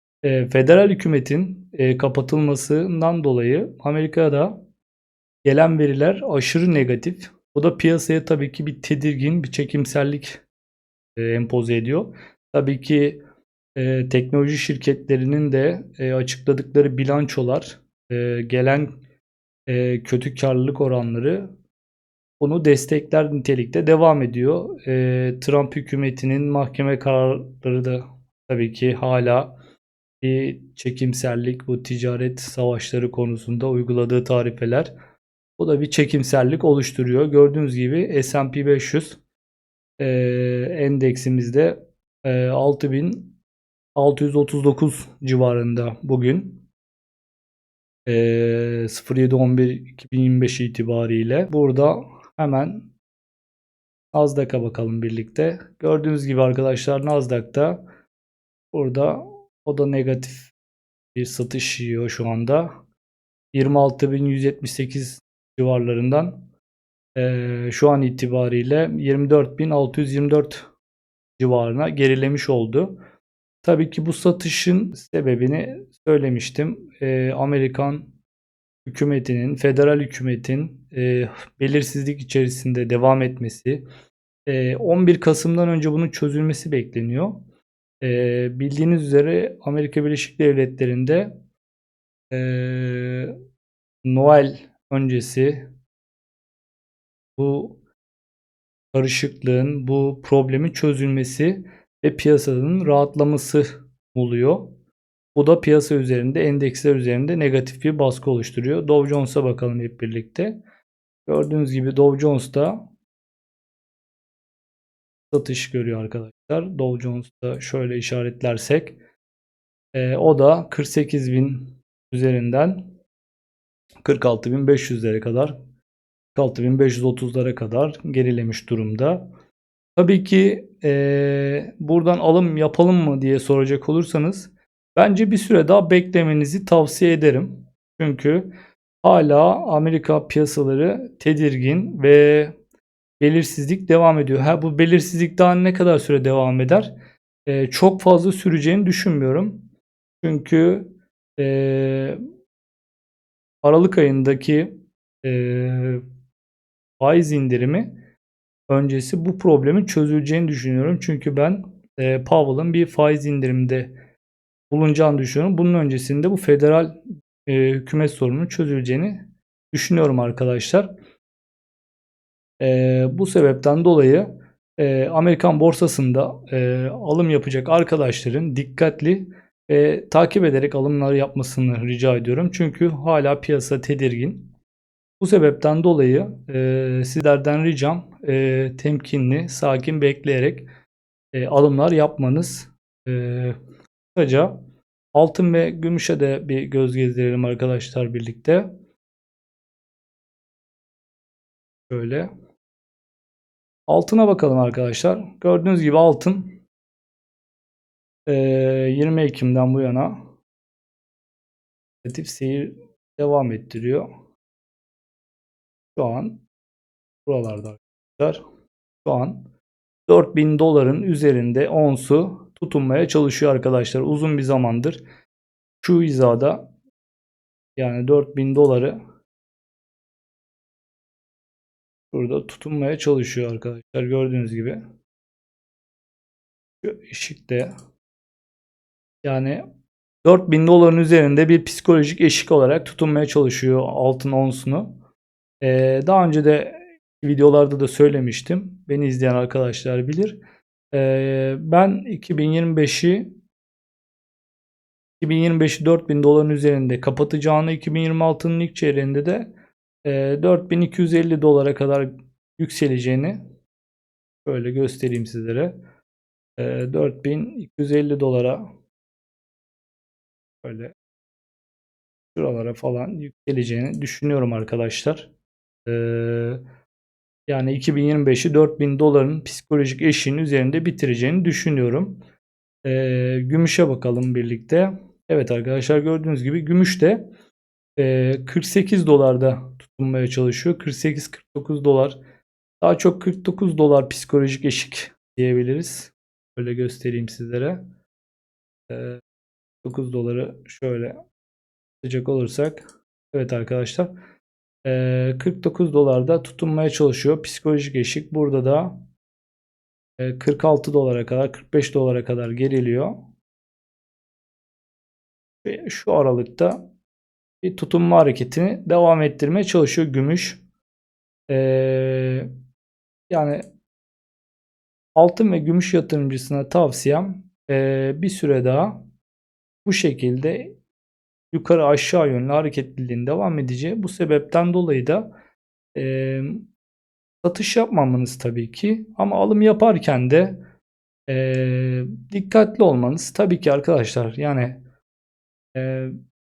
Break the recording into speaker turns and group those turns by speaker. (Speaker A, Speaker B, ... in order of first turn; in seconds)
Speaker A: 0.2-4.6, 5.4-10.4, 11.2-13.2, 13.8-18.9, 19.7-21.5, 22.4-29.5, 30.2-34.9, 35.6-39.2, 40.0-43.4, 44.0-46.6, 48.1-52.9, 54.1-57.8, 58.7-60.5, 61.1-62.7, 63.5-66.4, 67.2-70.6, 71.4-72.9, 73.6-78.1, 78.8-83.8, 84.5-87.4, 88.0-91.3, 92.3-93.3, 94.0-95.7, 97.4-97.8, 98.9-104.7, 105.3-110.6, 111.3-112.8, 115.3-119.0, 119.9-122.8, 124.0-125.5, 126.3-129.3, 129.9-138.5, 139.0-142.5, 143.2-146.9, 147.4-149.6, 150.2-152.2, 153.6-154.7, 155.2-156.0, 157.0-157.9, 158.7-163.9, 164.7-170.9, 172.6-184.5, 185.2-190.7, 191.3-193.6, 194.2-194.5, 195.1-198.7, 201.9-202.3, 203.9-206.6, 208.3-210.2, 212.0-214.1, 215.9-216.4, 217.3-218.4, 219.0-219.4, 220.1-225.0, 225.8-226.7, 227.8-229.0, 232.1-234.8, 236.8-237.7, 239.2-239.6, 240.2-244.9, 245.6-250.4, 250.9-253.3, 255.2-259.5, 260.1-263.4, 264.4-265.7, 266.6-268.6, 270.6-270.9, 272.3-275.3, 275.9-276.6, 277.5-282.2, 282.8-287.2, 288.0-292.2, 292.8-297.8, 298.9-299.2, 299.8-301.2, 302.0-304.1, 304.8-309.0, 310.2-313.1, 315.6-316.8, 317.6-320.6, 321.5-322.5, 323.3-323.6, 325.2-329.0, 329.8-330.8, 331.5-335.3, 335.9-336.7, 337.4-340.6, 341.3-344.8, 345.8-346.1